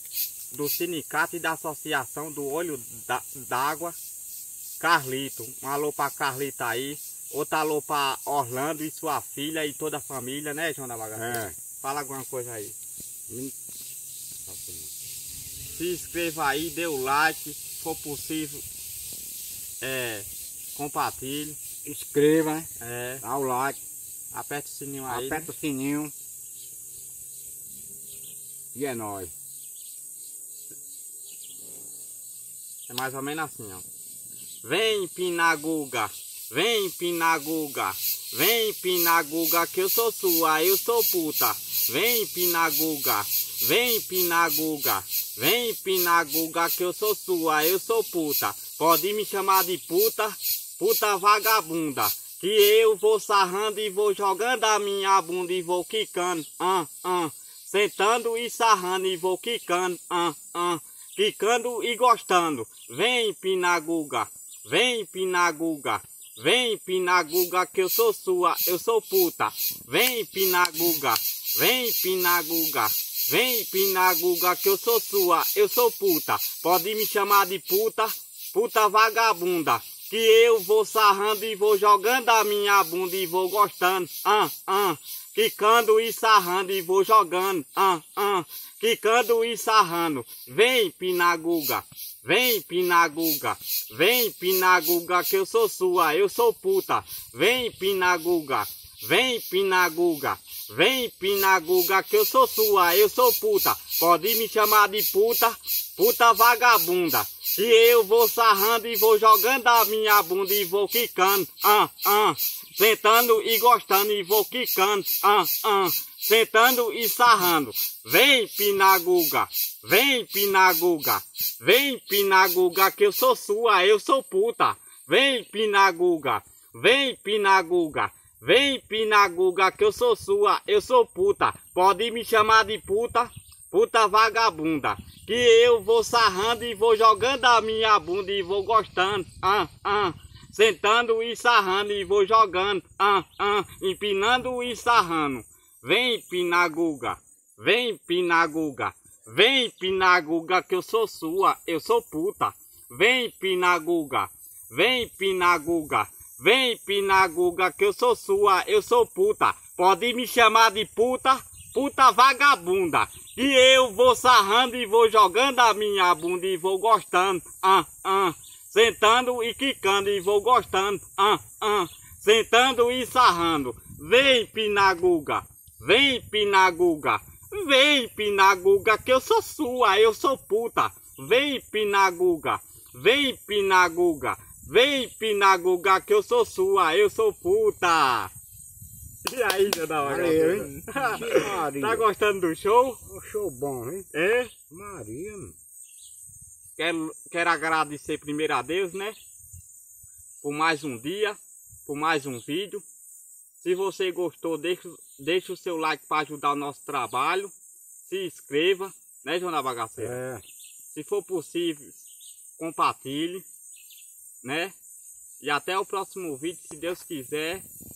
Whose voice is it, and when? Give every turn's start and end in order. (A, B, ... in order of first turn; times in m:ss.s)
0:00.5-0:04.0 A
0:04.8-0:12.8 A
0:11.2-0:11.6 B
0:13.3-0:13.5 B
0:14.5-0:14.9 B
0:15.7-0:18.6 A
0:19.8-0:21.6 A
0:21.8-0:22.7 B
0:22.8-0:23.2 A
0:23.2-0:23.8 B
0:24.3-0:25.5 A
0:25.1-0:26.1 B
0:28.7-0:29.3 B
0:32.9-0:33.8 A
0:34.6-3:08.3 A
3:09.2-3:13.0 A
3:10.0-3:12.0 B
3:13.1-3:14.1 B
3:14.1-3:14.5 A
3:14.7-3:15.6 B
3:16.8-3:19.2 A
3:20.4-3:22.8 A
3:23.6-3:27.5 A
3:28.0-3:30.2 A
3:30.0-3:30.4 B
3:30.9-3:32.0 A
3:32.6-3:33.4 A
3:34.4-3:34.8 A
3:35.4-3:37.6 A